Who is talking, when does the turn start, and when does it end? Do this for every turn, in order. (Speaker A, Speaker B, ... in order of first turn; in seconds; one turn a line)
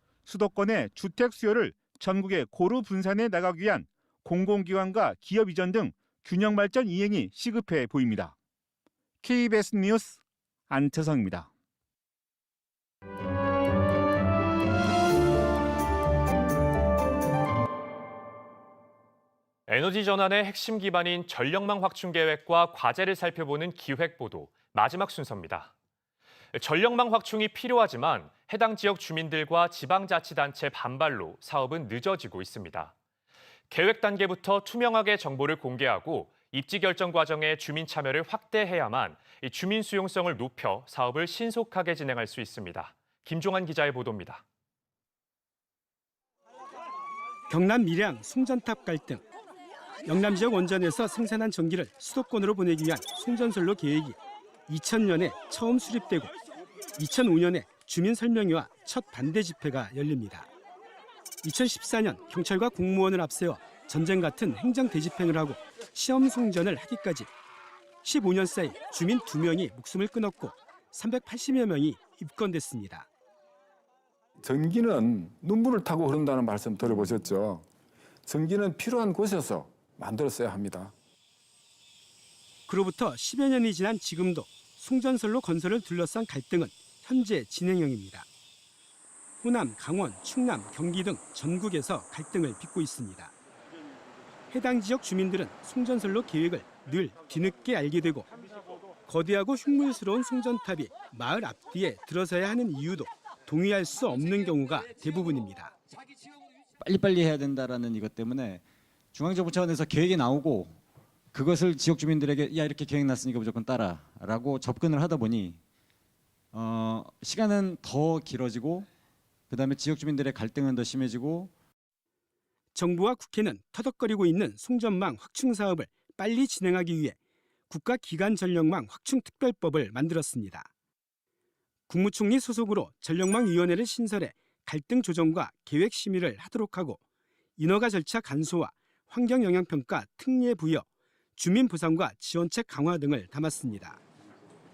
Speaker A: 0.2-8.3
Speaker A: 9.2-10.2
Speaker A: 10.7-11.5
Speaker B: 19.7-25.7
Speaker B: 26.5-32.9
Speaker B: 33.7-44.4
Speaker C: 47.5-49.2
Speaker C: 50.0-54.2
Speaker C: 54.7-56.3
Speaker C: 57.0-60.5
Speaker C: 61.4-67.3
Speaker C: 68.0-73.1
Speaker D: 74.4-77.6
Speaker D: 78.3-80.9
Speaker C: 82.7-88.2
Speaker C: 89.4-93.3
Speaker C: 94.5-98.3
Speaker C: 99.1-105.7
Speaker E: 106.8-108.6
Speaker E: 109.2-110.7
Speaker E: 111.3-115.5
Speaker E: 116.5-118.8
Speaker E: 119.5-121.5
Speaker C: 122.8-127.1
Speaker C: 127.7-130.7
Speaker C: 131.9-137.0
Speaker C: 137.6-140.8
Speaker C: 141.4-144.0